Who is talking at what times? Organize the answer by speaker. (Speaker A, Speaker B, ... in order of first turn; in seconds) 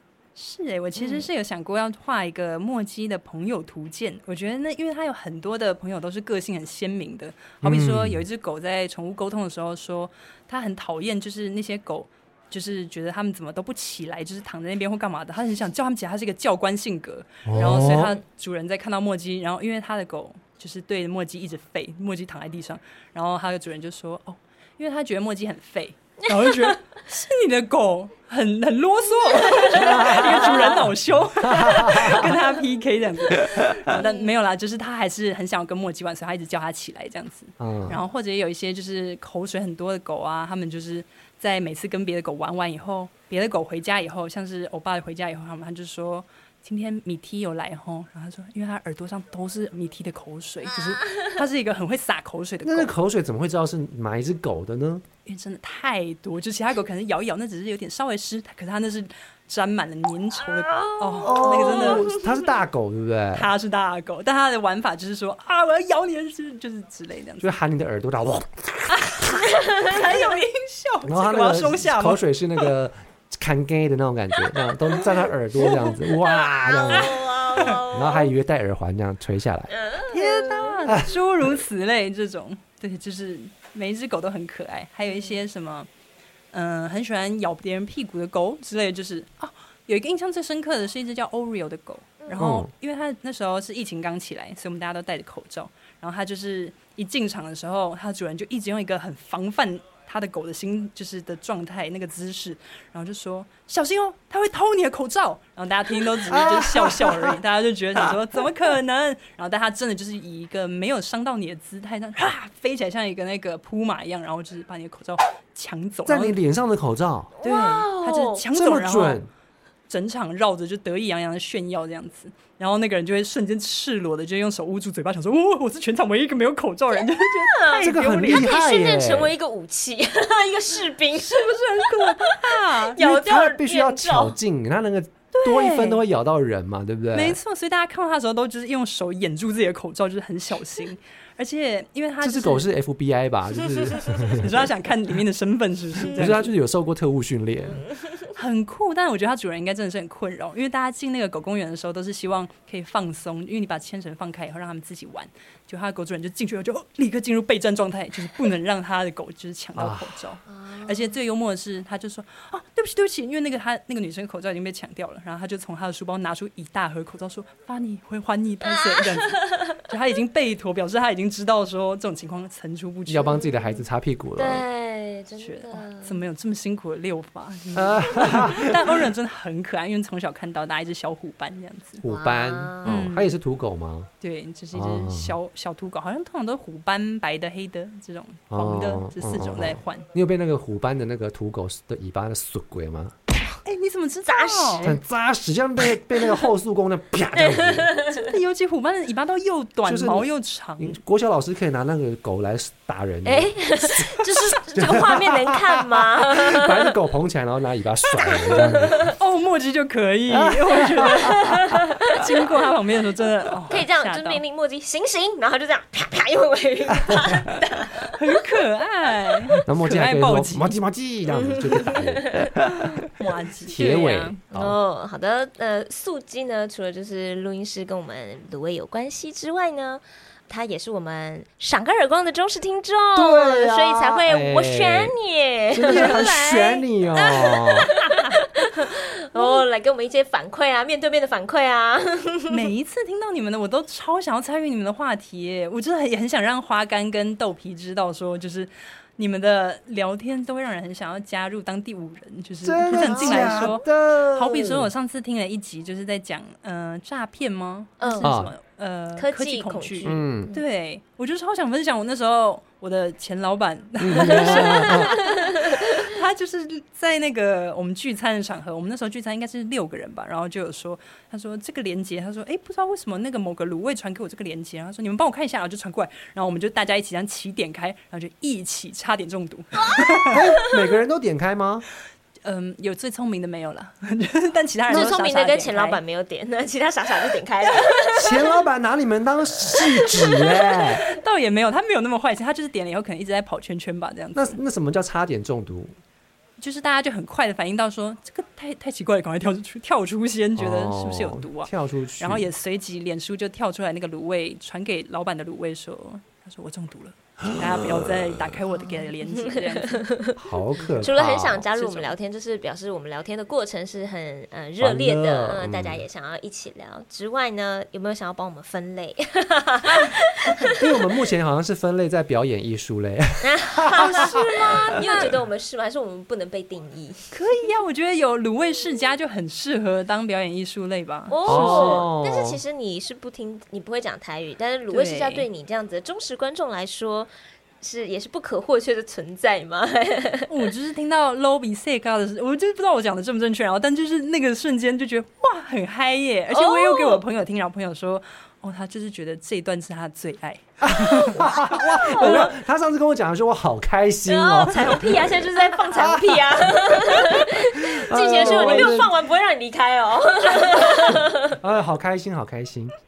Speaker A: 0.3-52.9, 55.2-62.1, 63.3-67.5, 68.9-72.2, 75.6-75.9, 80.1-85.9, 86.5-116.4, 117.4-119.2, 119.9-128.5, 131.2-133.0, 135.3-136.0, 137.1-142.7, 144.2-146.5, 148.3-173.3, 175.4-182.0, 182.8-183.3, 184.2-190.1, 193.6-194.9, 198.1-201.0, 209.2-211.4, 212.1-214.4, 218.1-220.8, 223.1-224.4, 235.9-236.2, 238.1-238.4, 239.3-239.6, 242.5-280.4, 282.4-286.0, 291.1-294.6, 296.6-310.1, 311.7-312.1, 324.1-325.4, 327.3-332.1, 334.9-335.5, 340.5-351.5, 352.1-352.5, 358.4-359.0
Speaker B: 0.9-1.3, 17.6-18.0, 29.2-30.8, 33.9-34.3, 60.6-62.2, 76.6-78.3, 79.7-80.8, 85.1-85.4, 92.2-92.5, 117.4-118.4, 127.2-134.4, 160.5-161.1, 168.7-169.3, 173.2-173.8, 174.4-176.2, 182.1-183.0, 194.2-195.0, 197.4-198.2, 203.2-206.9, 208.2-209.1, 211.1-212.3, 213.7-218.2, 221.3-222.5, 224.5-242.7, 252.9-253.7, 258.0-258.3, 259.1-260.6, 264.2-266.1, 280.0-280.4, 284.9-288.5, 308.9-310.4, 311.0-320.7, 323.4-327.3, 331.3-340.6, 346.5-347.2, 351.3-352.5, 354.3-361.6
Speaker C: 7.6-8.2, 17.4-18.2, 29.7-30.9, 31.4-32.4, 37.6-38.0, 52.6-55.0, 61.2-63.5, 67.4-69.3, 71.0-79.7, 80.8-81.5, 92.4-92.7, 106.3-107.4, 116.0-117.3, 118.5-119.3, 127.8-129.3, 133.0-137.4, 142.2-144.7, 146.0-147.8, 159.8-160.2, 173.1-174.6, 177.7-178.9, 182.0-184.1, 184.7-185.4, 188.5-193.2, 194.8-197.9, 199.8-209.1, 210.3-211.3, 217.0-217.4, 219.6-222.8, 223.7-224.8, 233.1-235.1, 235.7-237.9, 252.6-254.9, 258.2-258.5, 260.1-260.5, 264.0-265.1, 280.3-281.9, 288.1-291.0, 294.3-296.0, 300.6-302.5, 307.5-308.2, 310.4-311.6, 314.8-316.0, 320.8-324.4, 331.5-332.6, 350.8-359.1, 361.5-362.9